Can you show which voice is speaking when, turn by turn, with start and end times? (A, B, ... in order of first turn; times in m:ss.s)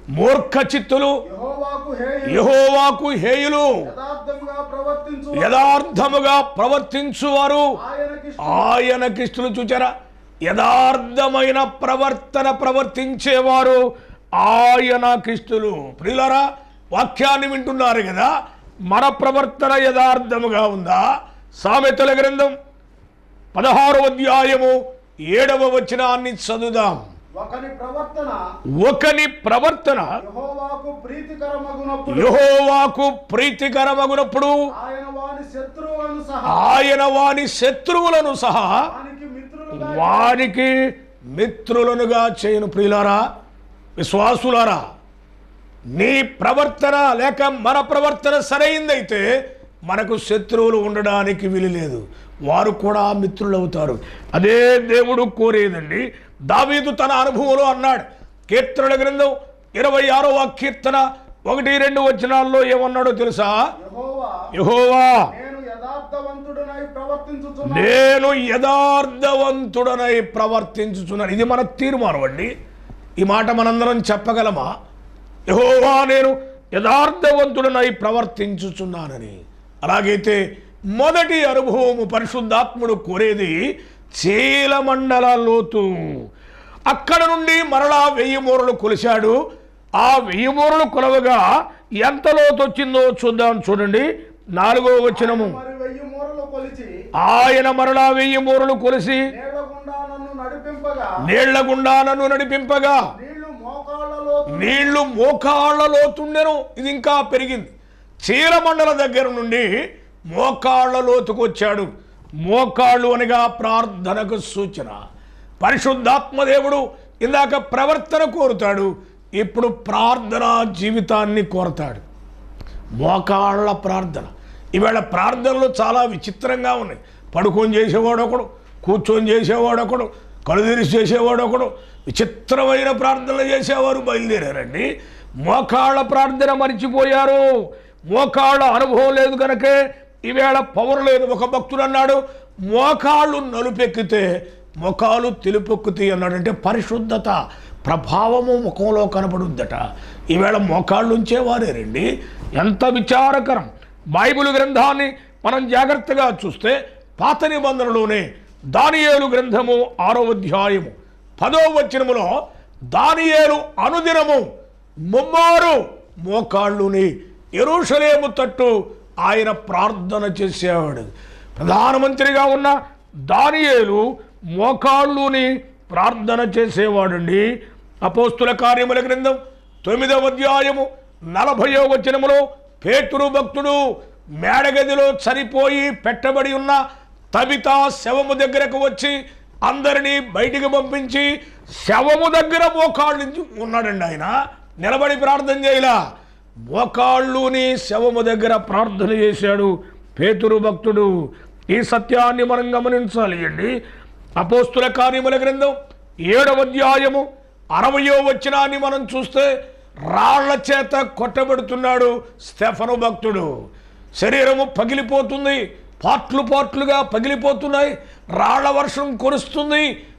0:00.1-0:01.2 A
0:01.3-0:02.5 B
0:02.3-0:03.8 A
0:03.8-0:05.7 B
0:05.4-0:07.6 A
0:07.8-0:08.7 B
0:08.4-0:09.9 A
0:10.5-0:13.8 A
0:14.4-0:18.3 A
0:18.9-0:21.0 A
0:21.6-0:22.5 A
0:23.5-0:24.8 A
0:25.3-0:27.0 A
0:27.4-0:28.4 B
0:28.8-0:30.2 A
0:30.2-0:32.4 B
0:32.1-0:34.5 A
0:34.7-0:36.6 B
0:36.5-0:38.9 A
0:38.8-0:40.5 B
0:39.8-0:40.7 A
0:41.4-0:43.2 A
0:44.0-0:44.8 A
0:46.0-0:49.2 A
0:49.9-1:03.6 A
1:03.8-1:04.4 B
1:04.5-1:05.3 A
1:05.3-1:07.9 B
1:07.7-1:12.5 A
1:13.2-1:14.7 A
1:15.5-1:20.4 A
1:21.0-1:26.2 A
1:26.9-1:29.4 A
1:30.0-1:31.4 A
1:32.0-1:34.1 A
1:34.6-1:35.6 A
1:35.1-1:36.9 B
1:37.2-1:39.2 A
1:39.3-1:41.1 B
1:41.3-1:43.0 A
1:43.1-1:45.0 B
1:44.5-1:47.7 A
1:48.2-1:49.7 A
1:50.3-1:51.9 A
1:52.4-1:55.0 A
1:55.6-2:02.0 A
2:03.0-2:14.9 A
2:15.4-2:17.4 A
2:18.1-2:32.0 A
2:32.6-2:42.3 A
2:42.9-2:44.4 A
2:45.1-2:52.7 A
2:53.3-2:57.4 A
2:58.0-3:03.8 A
3:04.4-3:06.8 A
3:07.3-3:11.3 A
3:11.8-3:16.0 A
3:16.7-3:21.1 A
3:21.7-3:23.7 A
3:24.4-3:25.7 A
3:26.3-3:27.2 A
3:27.8-3:29.5 A
3:30.1-3:33.5 A
3:34.2-3:39.9 A